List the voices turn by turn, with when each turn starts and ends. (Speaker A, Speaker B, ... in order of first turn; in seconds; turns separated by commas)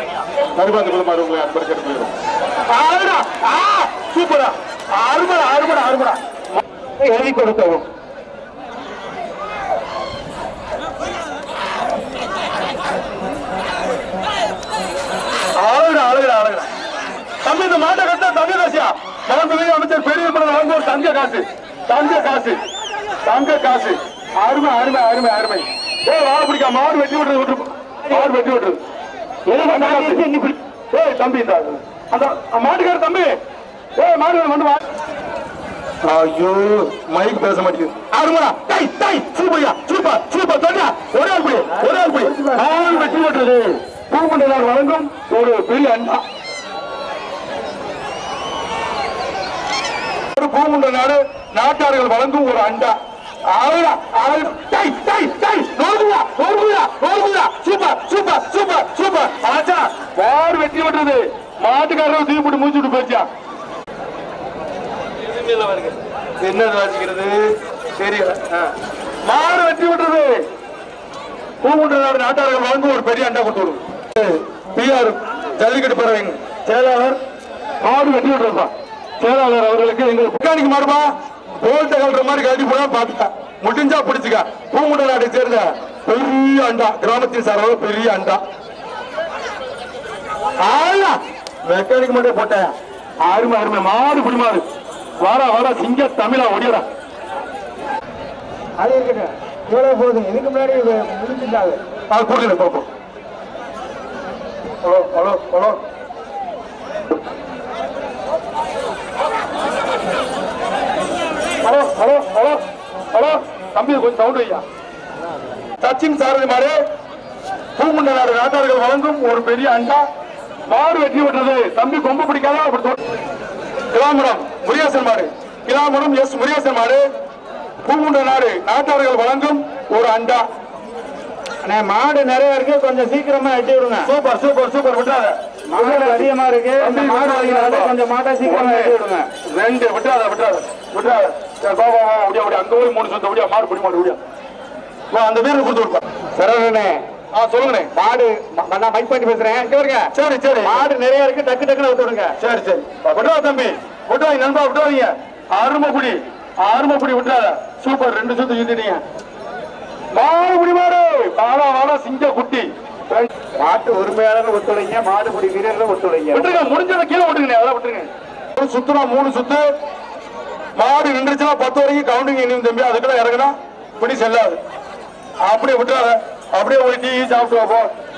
Speaker A: 0.6-2.1, Speaker A: 2.7-6.6, Speaker B: 7.0-7.8, Speaker A: 15.6-16.7, Speaker A: 17.4-22.6, Speaker A: 23.2-28.8, Speaker A: 29.5-30.2, Speaker B: 29.5-30.6, Speaker A: 30.9-33.4, Speaker A: 34.0-34.8, Speaker A: 36.0-46.2, Speaker B: 41.8-43.1, Speaker A: 50.4-53.0, Speaker A: 53.5-63.3, Speaker A: 65.3-68.6, Speaker A: 69.2-70.4, Speaker A: 71.6-77.2, Speaker A: 77.8-88.4, Speaker A: 90.6-94.6, Speaker A: 95.2-96.8, Speaker B: 98.8-101.8, Speaker A: 102.1-102.9, Speaker A: 104.8-105.8, Speaker A: 111.6-114.6, Speaker A: 115.8-116.8, Speaker A: 117.8-120.1, Speaker A: 120.7-123.0, Speaker A: 123.9-127.0, Speaker A: 127.8-130.4, Speaker B: 131.6-134.1, Speaker A: 134.1-139.0, Speaker B: 135.7-139.3, Speaker A: 139.5-144.2, Speaker A: 145.1-146.0, Speaker B: 146.4-147.0, Speaker A: 147.3-147.9, Speaker B: 147.9-150.1, Speaker A: 150.1-150.9, Speaker B: 150.7-152.4, Speaker A: 152.4-159.0, Speaker A: 160.1-163.3, Speaker B: 163.6-166.6, Speaker A: 166.3-169.7, Speaker A: 170.8-174.6, Speaker A: 175.4-177.9